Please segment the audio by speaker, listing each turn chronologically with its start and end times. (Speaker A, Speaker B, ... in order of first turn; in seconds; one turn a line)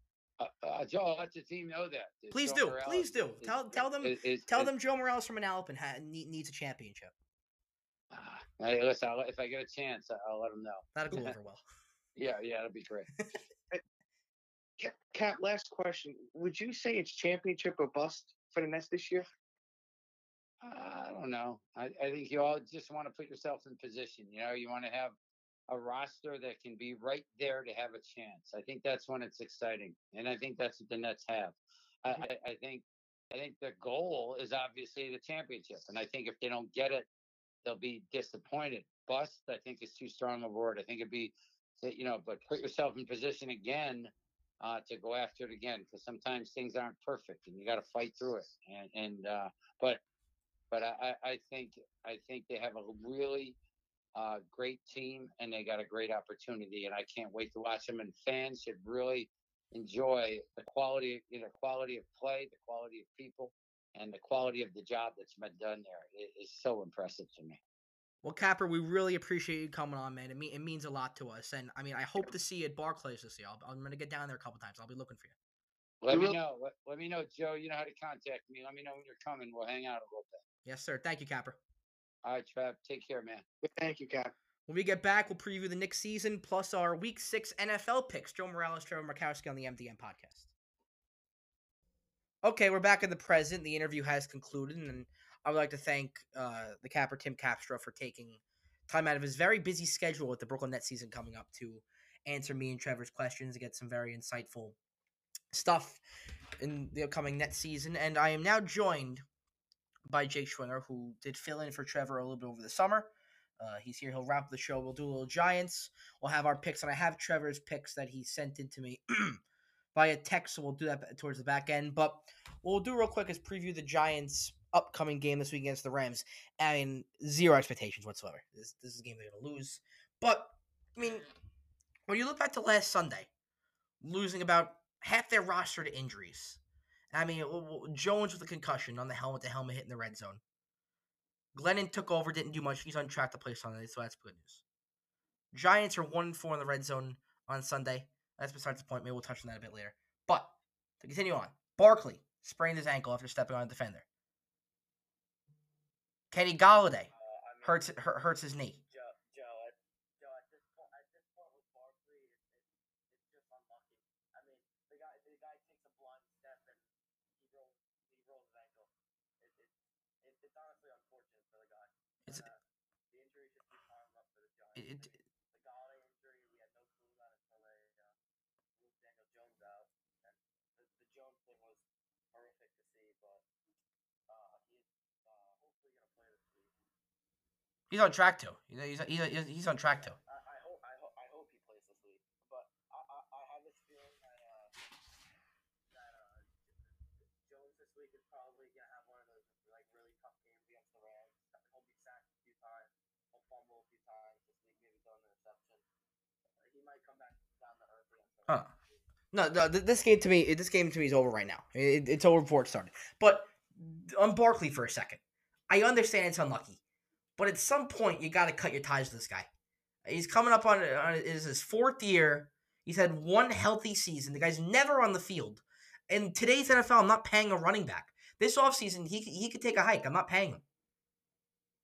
Speaker A: 0.4-4.7
Speaker B: 2.3-7.1
Speaker A: 8.1-11.3
Speaker B: 10.9-11.6
Speaker A: 12.2-13.1
Speaker C: 14.8-19.2
Speaker A: 20.6-25.1
Speaker A: 25.7-37.1
Speaker A: 37.6-50.0
Speaker A: 50.7-53.5
Speaker A: 54.1-67.6
Speaker B: 68.2-75.3
Speaker A: 76.0-80.4
Speaker C: 76.1-76.4
Speaker B: 80.6-81.6
Speaker A: 82.2-83.4
Speaker C: 83.6-84.3
Speaker B: 84.7-90.5
Speaker B: 92.4-104.8
Speaker B: 105.5-106.0
Speaker B: 106.6-109.2
Speaker B: 110.0-119.4
Speaker B: 119.9-131.3
Speaker B: 132.1-133.3
Speaker B: 134.0-136.6
Speaker B: 137.1-140.4
Speaker B: 141.5-144.6
Speaker B: 145.5-154.0
Speaker B: 156.3-157.1
Speaker D: 157.1-158.0
Speaker B: 157.6-158.8
Speaker D: 158.9-178.1
Speaker B: 174.8-175.1
Speaker D: 178.8-183.4
Speaker D: 184.3-186.9
Speaker B: 187.9-190.2
Speaker D: 190.0-194.7
Speaker D: 195.9-205.8
Speaker D: 206.6-209.0
Speaker B: 209.3-216.8
Speaker B: 217.4-219.5
Speaker B: 220.1-230.6